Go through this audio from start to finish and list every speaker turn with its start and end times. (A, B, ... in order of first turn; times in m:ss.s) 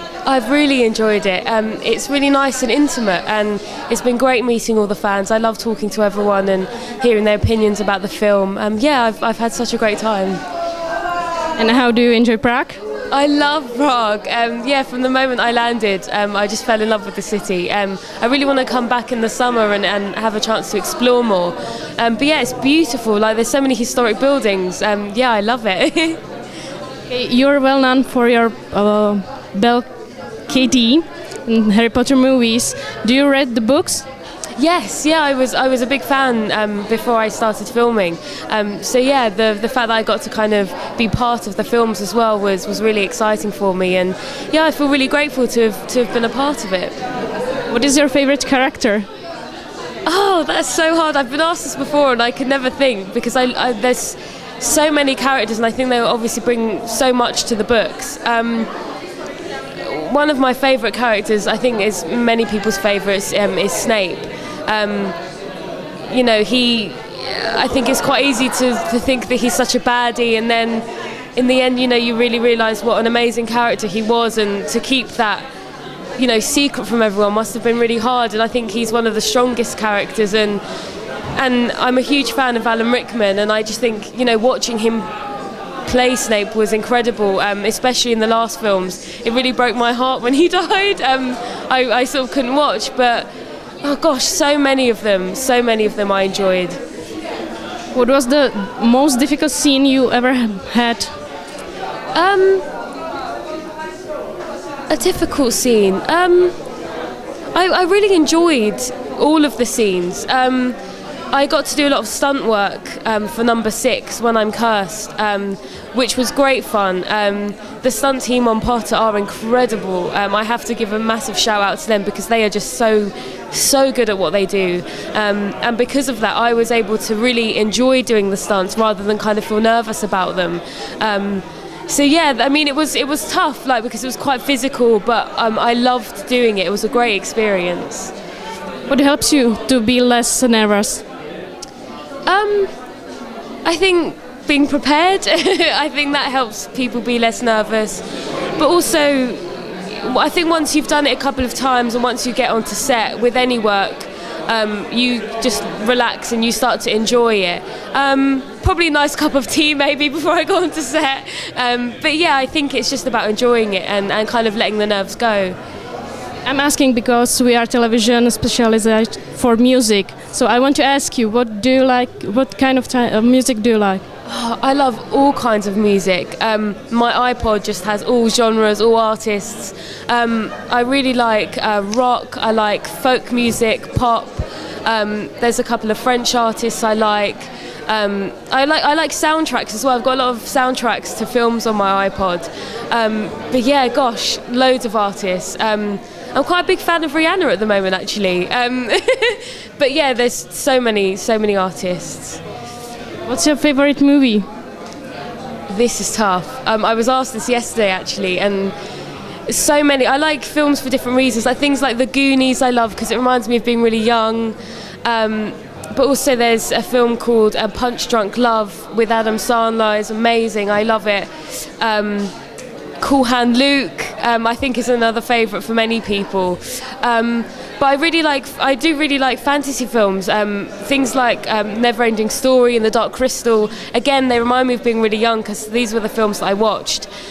0:00.2-0:10.4 A
0:11.6-0:12.8 B
0:13.1-0:26.2 A
0:27.1-0:29.9 B
0:30.5-0:34.0 B
0:34.6-0:47.0 A
0:47.7-0:49.1 B
0:50.0-0:58.7 A
0:59.8-1:05.2 A
1:06.1-1:10.8 A
1:11.4-1:15.5 A
1:16.2-1:20.6 A
1:21.3-1:25.0 A
1:25.8-1:33.3 A
1:33.8-1:36.8 A
1:37.9-1:41.1 B
1:42.1-1:42.7 A
1:44.9-1:46.6 A
1:47.5-1:50.8 A
1:51.3-2:18.1 A
2:18.9-2:21.0 B
2:22.2-2:22.7 A
2:23.6-2:28.0 A
2:28.6-2:45.6 A
2:46.4-2:54.0 B
2:54.2-3:22.4 A
3:23.2-3:24.4 B
3:25.7-3:28.7 A
3:29.5-3:42.3 A
3:43.0-3:57.1 A